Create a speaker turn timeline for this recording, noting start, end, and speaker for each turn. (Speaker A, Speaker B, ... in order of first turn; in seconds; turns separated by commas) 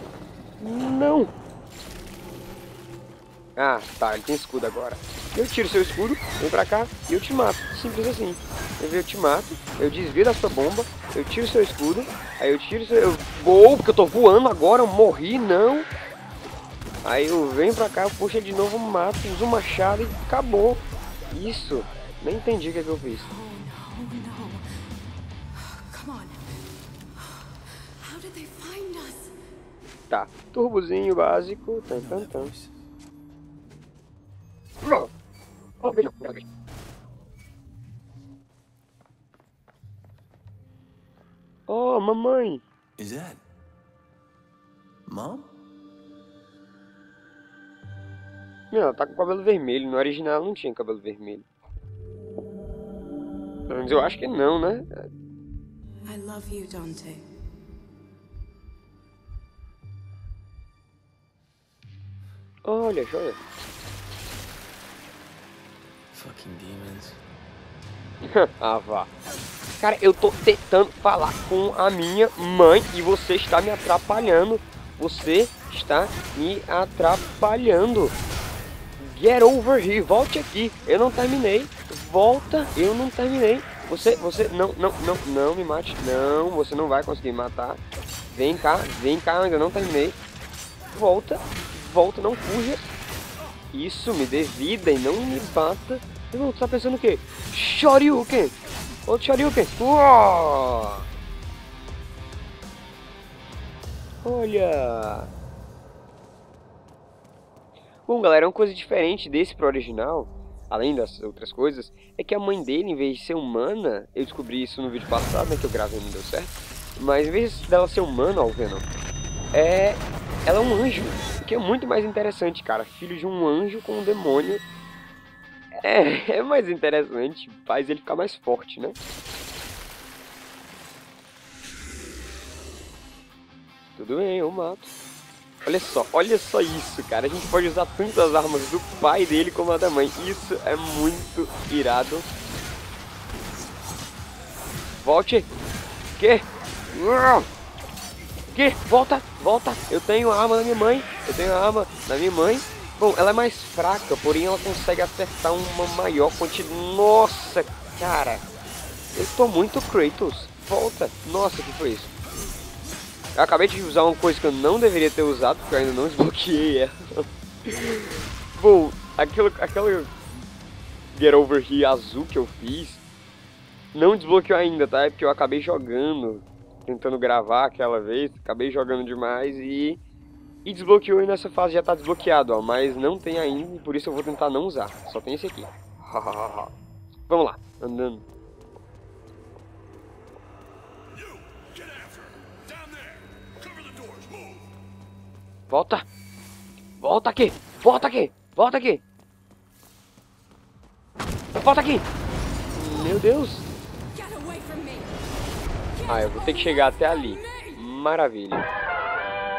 Speaker A: 0.6-1.3, Speaker A: 3.5-15.9, Speaker A: 17.0-23.4, Speaker B: 23.4-24.6, Speaker B: 25.8-26.4, Speaker B: 28.0-29.3, Speaker A: 30.1-32.5, Speaker C: 31.9-32.8, Speaker A: 34.8-35.1, Speaker A: 35.8-36.4, Speaker A: 41.7-42.6, Speaker C: 43.0-43.4, Speaker C: 45.1-45.5, Speaker A: 48.7-51.5, Speaker A: 53.7-55.1, Speaker B: 56.0-57.2, Speaker A: 62.6-63.4, Speaker C: 66.1-67.2, Speaker A: 68.3-69.1, Speaker A: 69.8-78.1, Speaker A: 79.0-87.8, Speaker A: 88.3-90.2, Speaker A: 90.9-92.9, Speaker A: 93.7-98.5, Speaker A: 99.1-101.0, Speaker A: 104.2-105.3, Speaker A: 108.0-118.9, Speaker A: 119.5-124.6, Speaker A: 125.8-129.0, Speaker A: 133.9-134.9, Speaker A: 135.6-142.3, Speaker A: 145.0-145.5, Speaker A: 146.2-147.5, Speaker A: 148.5-158.4, Speaker A: 159.1-162.1, Speaker A: 163.3-170.1, Speaker A: 171.1-173.0, Speaker A: 173.9-180.0, Speaker A: 180.6-186.7, Speaker A: 187.3-188.2, Speaker A: 195.7-196.1, Speaker A: 197.0-199.0, Speaker A: 201.5-202.1, Speaker A: 202.7-203.7, Speaker B: 204.5-205.0, Speaker A: 206.0-208.7